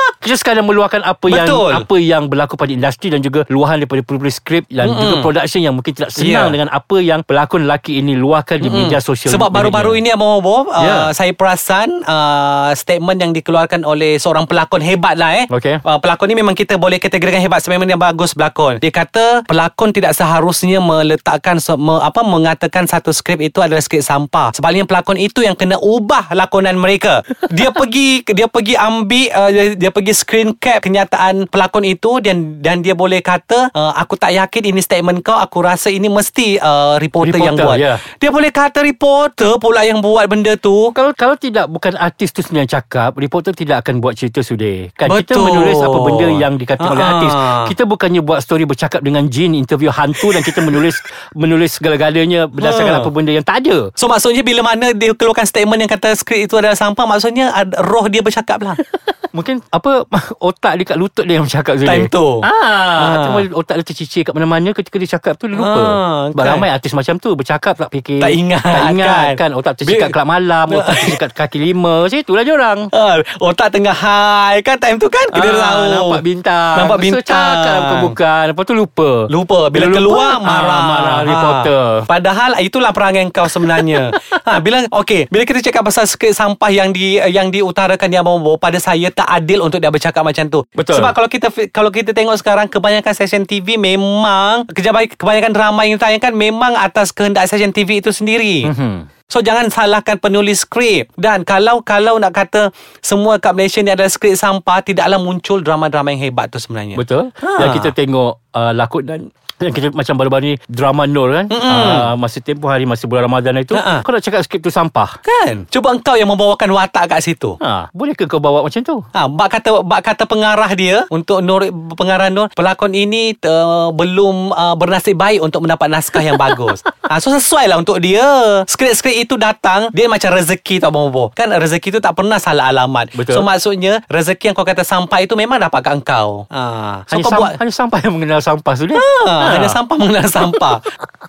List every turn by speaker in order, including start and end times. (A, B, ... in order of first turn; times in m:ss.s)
0:00.2-0:10.0 A
0:01.3-0:01.8 B
0:04.8-0:05.3 B
0:06.2-0:06.6 B
0:08.6-0:40.9 B
0:10.8-0:11.1 A
0:15.5-0:15.8 A
0:37.2-0:38.0 A
0:40.9-0:53.9 A
0:45.0-0:47.7 B
0:50.2-0:50.8 B
0:52.6-0:53.1 B
0:54.0-0:58.8 B
0:59.3-1:12.9 A
1:01.8-1:03.4 B
1:05.5-1:06.7 B
1:08.2-1:10.1 B
1:10.7-1:11.2 B
1:12.9-1:16.2 B
1:15.3-1:22.0 A
1:16.7-1:18.2 B
1:19.3-1:38.7 B
1:23.7-1:24.2 A
1:30.8-1:31.1 A
1:38.6-1:39.1 A
1:39.3-1:47.9 B
1:46.9-1:55.2 A
1:51.5-1:52.1 B
1:53.7-1:54.0 B
1:55.2-1:57.6 B
1:57.6-1:59.0 A
1:59.1-2:17.6 B
2:13.1-2:13.4 A
2:17.1-2:19.8 A
2:18.9-2:20.8 B